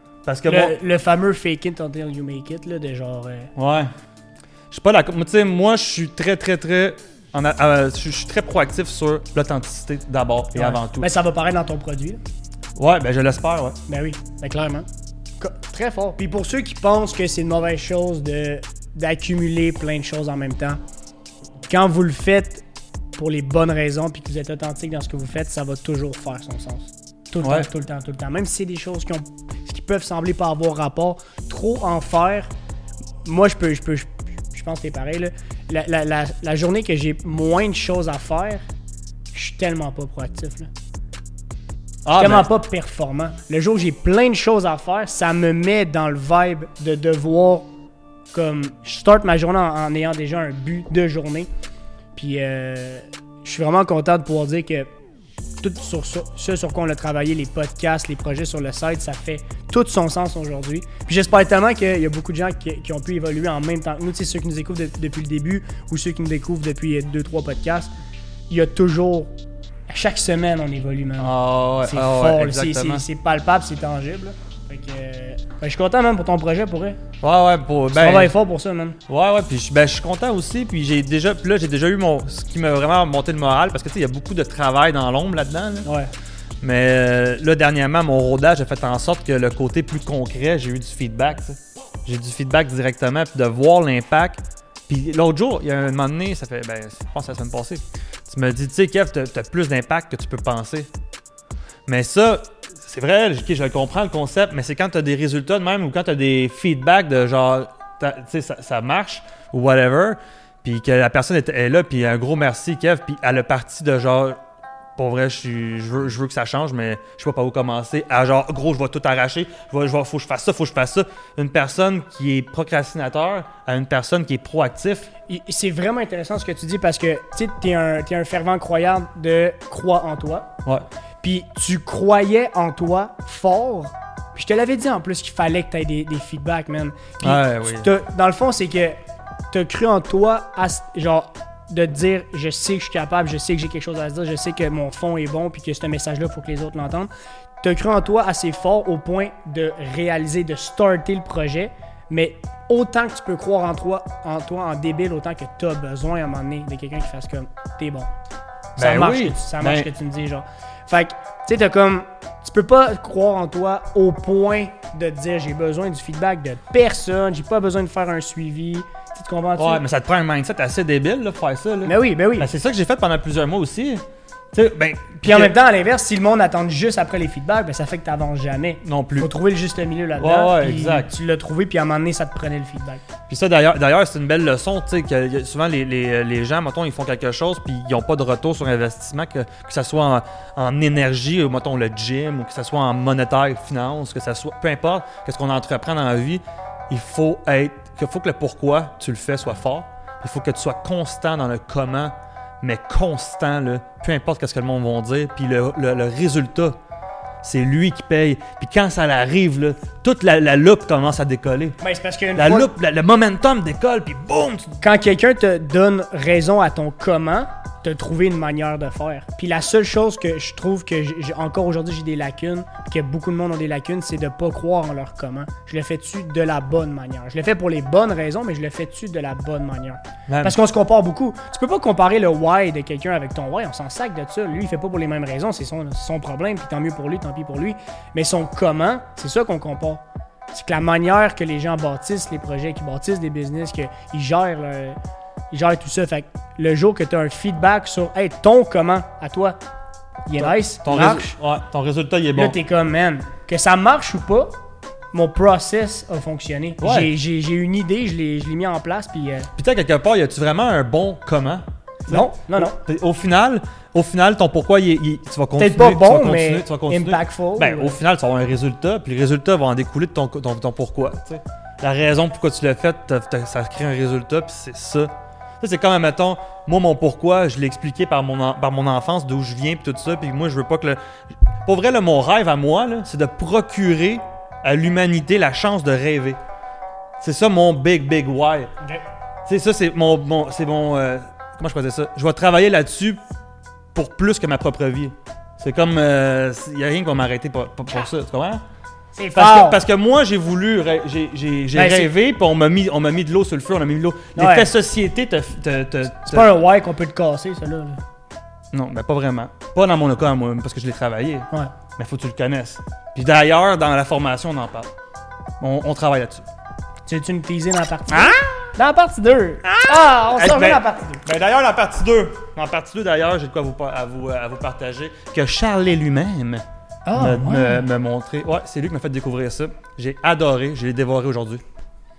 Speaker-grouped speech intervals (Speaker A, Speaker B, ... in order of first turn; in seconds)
Speaker A: 0.3-0.7, 3.5-3.9, 4.7-11.1, 12.8-13.8, 42.0-42.5, 71.2-73.0, 77.2-78.3, 79.1-85.9, 86.6-100.9, 101.9-114.4, 115.0-125.1, 137.2-137.9, 158.8-159.9, 169.6-175.5, 178.8-179.3, 180.2-181.1, 183.3-206.8, 207.4-211.8, 212.4-214.8, 230.3-230.6, 250.4-252.6, 256.8-257.1, 259.6-275.1, 275.6-281.0, 281.6-286.4, 287.2-288.7, 289.5-293.2, 293.9-298.6, 299.4-306.5, 308.7-314.9, 315.6-316.5, 318.1-318.7, 319.6-326.6, 327.2-331.6
Speaker B: 0.5-3.5, 10.6-12.2, 13.9-14.9, 15.4-20.8, 21.7-22.6, 23.2-32.5, 33.2-38.6, 39.3-40.7, 42.2-47.7, 48.3-51.5, 52.1-54.9, 55.6-67.9, 68.5-69.3, 69.9-71.3, 71.8-77.0, 77.9-79.0, 85.8-86.1, 125.3-130.5, 131.2-139.0, 139.5-147.1, 147.6-158.1, 158.8-169.8, 171.8-172.5, 175.2-183.0, 211.8-212.7, 214.8-245.0, 245.5-249.6, 250.3-251.4, 252.3-254.5, 255.1-259.5, 262.1-262.8, 265.6-268.0, 299.1-299.8, 301.8-302.1, 304.4-304.7, 306.2-308.0, 317.1-321.2, 327.1-327.9